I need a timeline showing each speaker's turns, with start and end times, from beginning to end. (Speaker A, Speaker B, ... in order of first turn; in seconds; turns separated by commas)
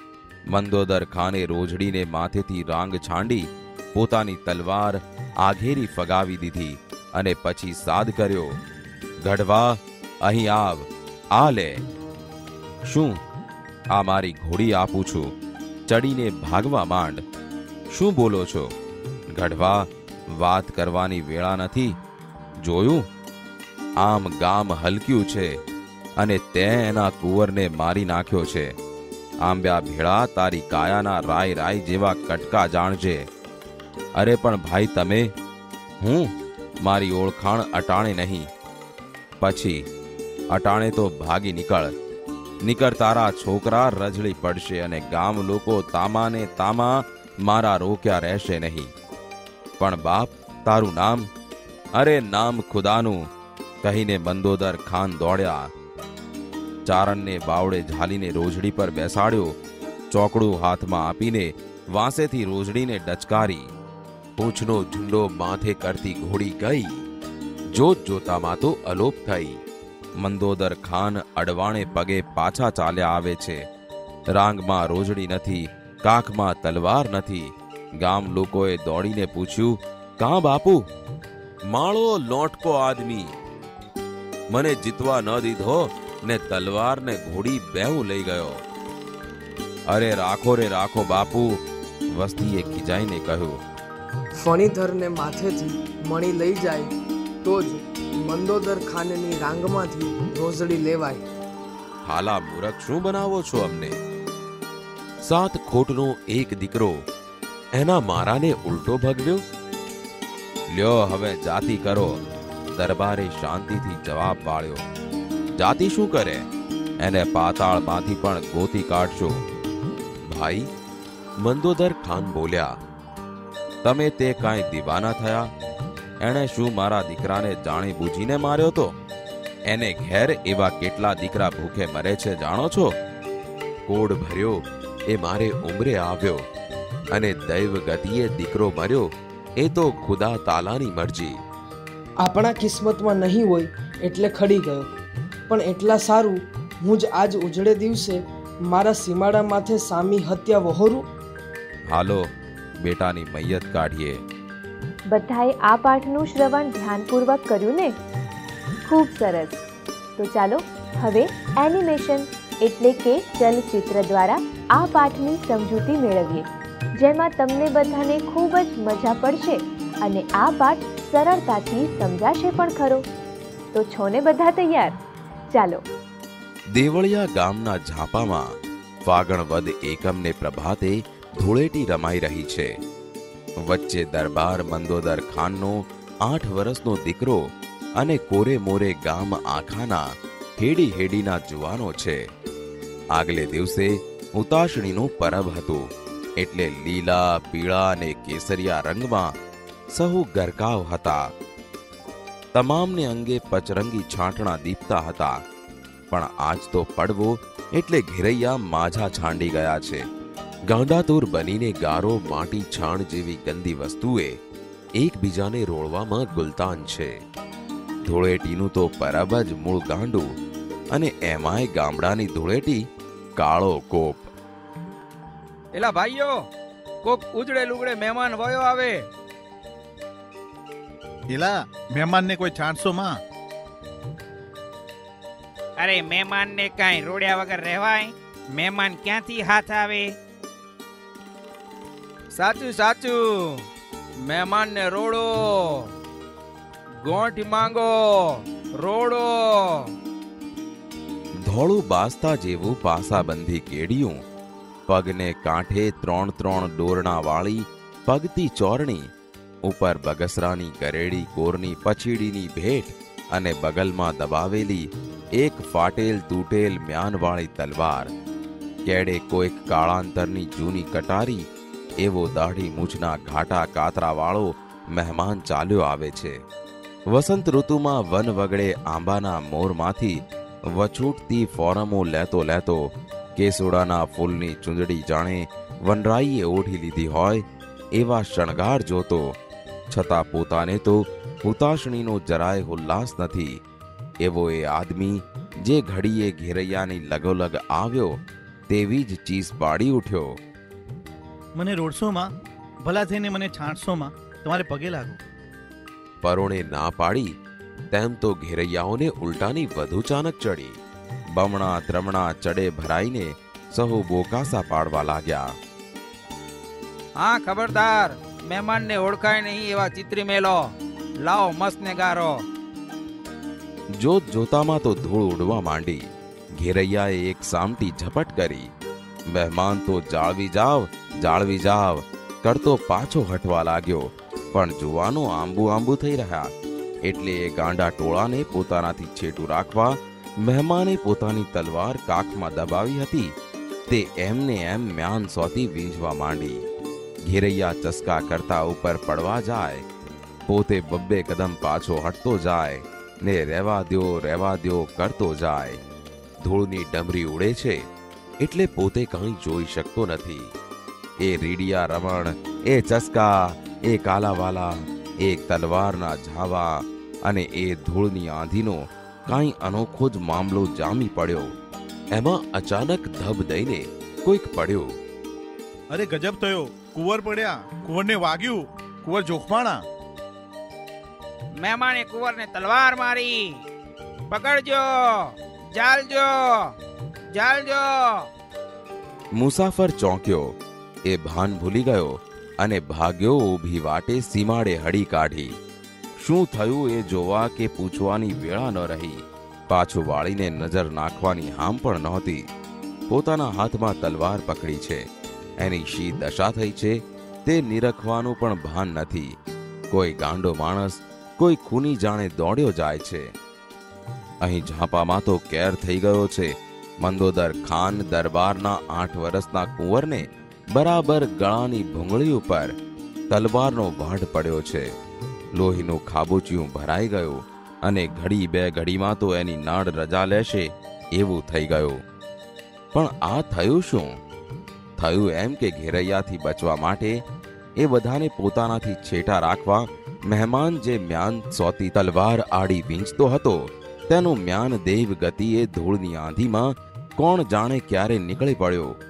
Speaker A: 0.5-8.5, Speaker A: 9.2-11.8, Speaker A: 12.9-13.2, Speaker A: 13.9-15.3, Speaker A: 15.9-17.2, Speaker A: 17.9-18.7, Speaker A: 19.3-21.9, Speaker A: 22.6-23.0, Speaker A: 24.0-25.5, Speaker A: 26.2-28.7, Speaker A: 29.4-33.2, Speaker A: 34.2-35.3, Speaker A: 36.0-36.3, Speaker A: 36.8-38.5, Speaker A: 39.4-39.8, Speaker A: 40.5-41.9, Speaker A: 42.6-48.9, Speaker A: 49.8-51.2, Speaker A: 52.0-53.2, Speaker A: 53.8-55.7, Speaker A: 56.9-59.5, Speaker A: 60.1-63.7, Speaker A: 64.4-66.9, Speaker A: 67.7-69.6, Speaker A: 70.2-73.6, Speaker A: 74.3-80.8, Speaker A: 81.7-83.3, Speaker A: 84.5-88.6, Speaker A: 89.9-91.6, Speaker A: 92.1-93.6, Speaker B: 94.3-96.9, Speaker B: 97.4-101.2, Speaker A: 102.1-104.0, Speaker A: 105.2-107.0, Speaker A: 107.8-109.4, Speaker A: 110.7-112.1, Speaker A: 112.7-114.8, Speaker A: 115.6-116.4, Speaker A: 117.0-119.4, Speaker A: 120.3-120.7, Speaker A: 121.4-122.8, Speaker A: 123.8-125.5, Speaker A: 126.2-128.9, Speaker A: 129.7-132.9, Speaker A: 133.9-136.4, Speaker A: 137.1-141.4, Speaker B: 142.2-144.9, Speaker B: 145.5-151.0, Speaker A: 151.9-152.3, Speaker A: 152.8-154.2, Speaker C: 155.1-157.9, Speaker C: 158.8-159.6, Speaker C: 160.2-173.1, Speaker C: 173.7-175.0, Speaker C: 175.5-175.8, Speaker A: 176.8-178.5, Speaker A: 179.1-182.7, Speaker A: 183.6-187.4, Speaker A: 188.0-190.1, Speaker A: 190.6-192.2, Speaker A: 193.1-195.9, Speaker A: 196.4-199.3, Speaker A: 200.0-201.2, Speaker A: 202.5-205.4, Speaker A: 206.1-210.0, Speaker A: 210.7-214.4, Speaker A: 215.0-217.1, Speaker A: 218.1-220.2, Speaker A: 220.9-222.8, Speaker A: 223.4-224.3, Speaker D: 225.8-226.4, Speaker D: 227.0-229.0, Speaker E: 231.3-233.2, Speaker D: 235.8-240.1, Speaker D: 242.3-243.6, Speaker D: 244.2-245.9, Speaker D: 247.0-249.9, Speaker A: 251.5-254.2, Speaker A: 254.9-259.1, Speaker A: 259.7-264.9, Speaker A: 265.4-268.1, Speaker A: 268.9-271.4, Speaker A: 272.0-276.4, Speaker A: 277.1-280.2, Speaker A: 280.7-287.4, Speaker A: 288.0-289.3, Speaker A: 289.9-293.6, Speaker A: 294.2-300.3, Speaker E: 301.6-302.3, Speaker E: 302.8-305.2, Speaker A: 306.2-307.3, Speaker A: 307.9-310.8, Speaker A: 311.3-315.5, Speaker D: 317.2-320.7, Speaker D: 321.2-322.4, Speaker A: 324.0-326.0, Speaker A: 326.6-328.7, Speaker A: 329.3-336.5, Speaker A: 337.1-343.3, Speaker A: 343.9-346.6, Speaker A: 347.3-349.8, Speaker A: 350.5-355.8, Speaker A: 356.4-357.8, Speaker A: 358.4-360.5, Speaker A: 361.2-371.5, Speaker A: 372.1-374.9, Speaker E: 375.9-379.8, Speaker D: 381.6-383.5, Speaker D: 384.3-386.7, Speaker D: 387.3-388.3, Speaker A: 389.4-390.5, Speaker A: 391.1-395.5, Speaker A: 396.2-402.4, Speaker A: 403.1-405.0, Speaker A: 405.6-409.3, Speaker A: 409.9-413.3, Speaker A: 414.4-416.5, Speaker A: 417.0-422.8, Speaker A: 423.3-424.9, Speaker A: 425.6-432.0, Speaker A: 432.9-434.1, Speaker A: 435.0-437.2, Speaker A: 437.8-443.6, Speaker A: 444.1-448.9